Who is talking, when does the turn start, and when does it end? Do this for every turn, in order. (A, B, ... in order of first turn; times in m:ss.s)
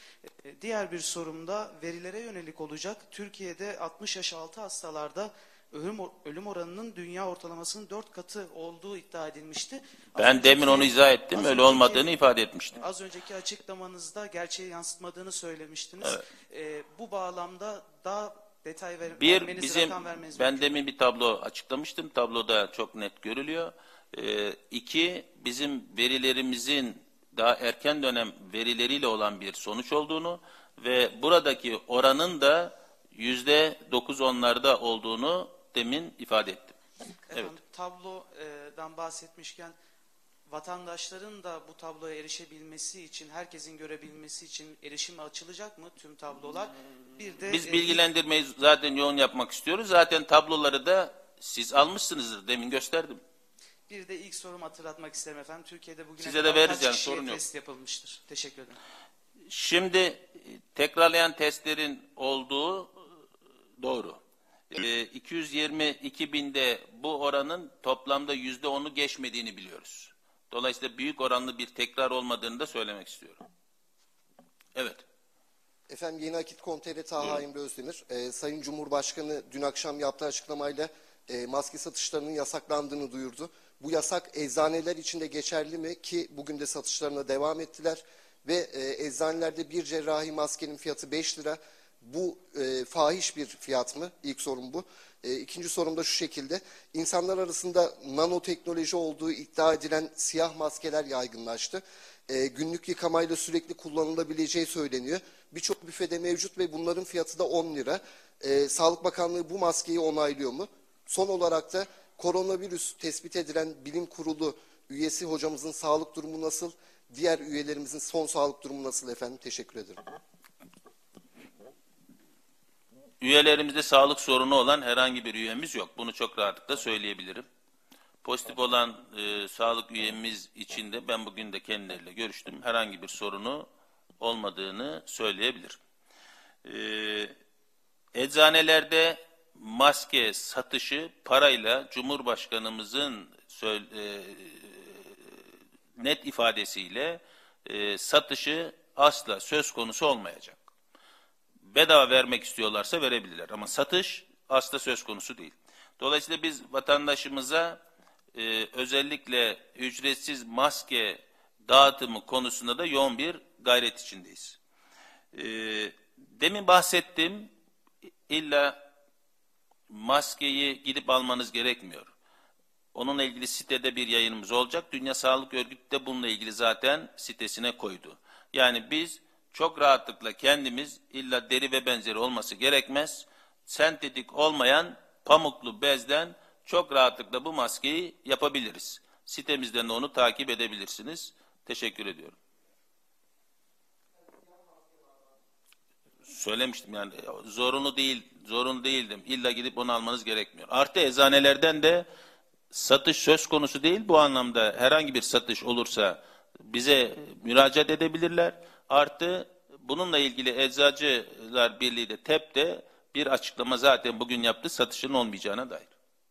0:00.4-0:12.2 A
0:10.2-0:12.8 B
0:12.7-0:20.8 A
0:19.2-0:36.8 B
0:37.3-0:39.8 A
0:40.5-0:48.0 A
0:47.5-0:53.2 B
0:53.9-0:58.8 A
0:56.2-0:57.4 B
0:59.5-1:02.9 B
1:03.8-1:04.2 B
1:04.7-1:13.4 B
1:14.8-1:15.0 B
1:15.9-2:00.0 C
2:03.2-2:07.4 B
2:08.2-2:13.7 B
2:14.2-2:15.8 B
2:16.6-2:17.3 B
2:18.1-2:24.9 B
2:26.0-2:30.6 B
2:31.7-2:37.8 B
2:38.3-2:44.6 B
2:45.3-2:47.5 B
2:48.3-2:48.8 B
2:49.9-2:52.1 B
2:52.9-3:12.3 B
3:16.3-3:22.0 B
3:22.7-3:35.9 B